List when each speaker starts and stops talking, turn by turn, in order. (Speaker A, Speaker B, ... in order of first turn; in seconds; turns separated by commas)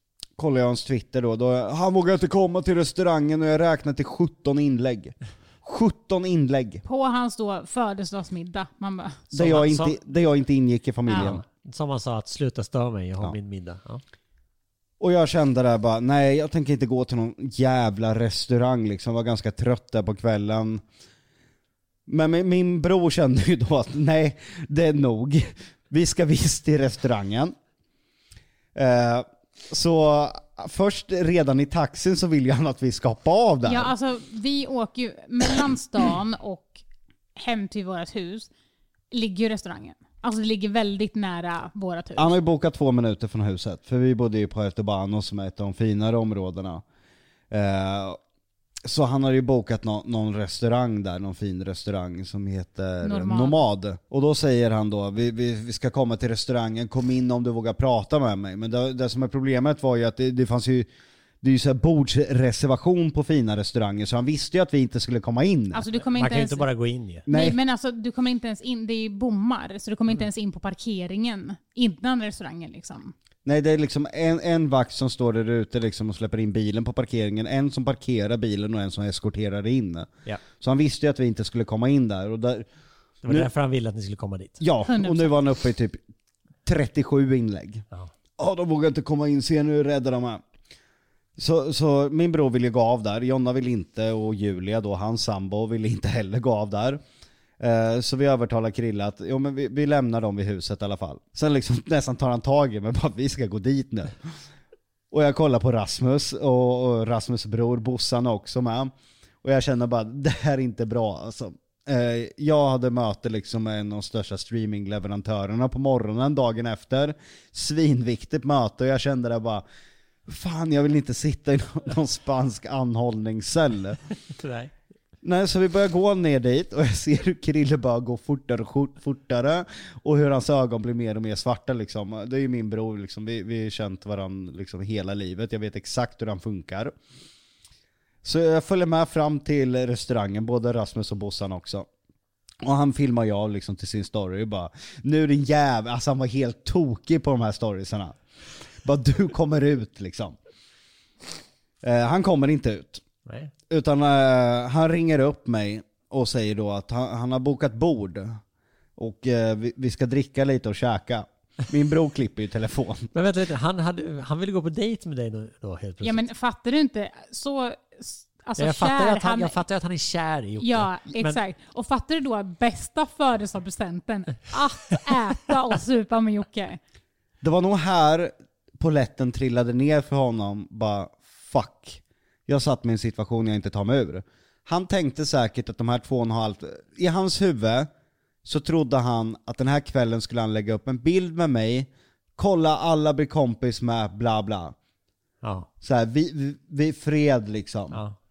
Speaker A: 0.4-6.8, Speaker B: 6.8-9.3, Speaker C: 9.3-10.0, Speaker A: 9.3-11.4, Speaker C: 11.1-14.0, Speaker A: 15.0-20.8, Speaker A: 22.1-27.5, Speaker A: 28.7-33.9, Speaker B: 33.7-36.8, Speaker B: 37.4-38.5, Speaker B: 39.1-42.3, Speaker A: 42.2-46.8, Speaker A: 47.5-48.2, Speaker A: 48.8-60.9, Speaker B: 53.0-53.6, Speaker A: 61.4-65.8, Speaker B: 65.7-66.7, Speaker C: 66.1-67.2, Speaker A: 67.3-67.6, Speaker B: 67.3-73.1, Speaker A: 73.4-82.7, Speaker C: 83.2-84.6, Speaker A: 84.6-86.0, Speaker B: 84.8-85.3, Speaker A: 86.7-87.8, Speaker A: 88.4-90.4, Speaker A: 91.4-97.0, Speaker A: 97.6-104.2, Speaker A: 105.1-108.9, Speaker A: 109.4-119.6, Speaker A: 120.3-124.0, Speaker C: 124.4-124.7, Speaker A: 125.2-136.9, Speaker A: 138.2-141.9, Speaker A: 142.6-148.2, Speaker A: 148.8-150.4, Speaker A: 151.8-153.0, Speaker C: 153.2-153.5, Speaker A: 153.7-158.4, Speaker A: 159.0-163.1, Speaker C: 163.1-166.3, Speaker B: 166.0-169.6, Speaker C: 168.6-171.4, Speaker B: 170.6-176.8, Speaker A: 177.4-187.9, Speaker A: 188.4-194.7, Speaker C: 195.4-195.7, Speaker A: 195.8-198.0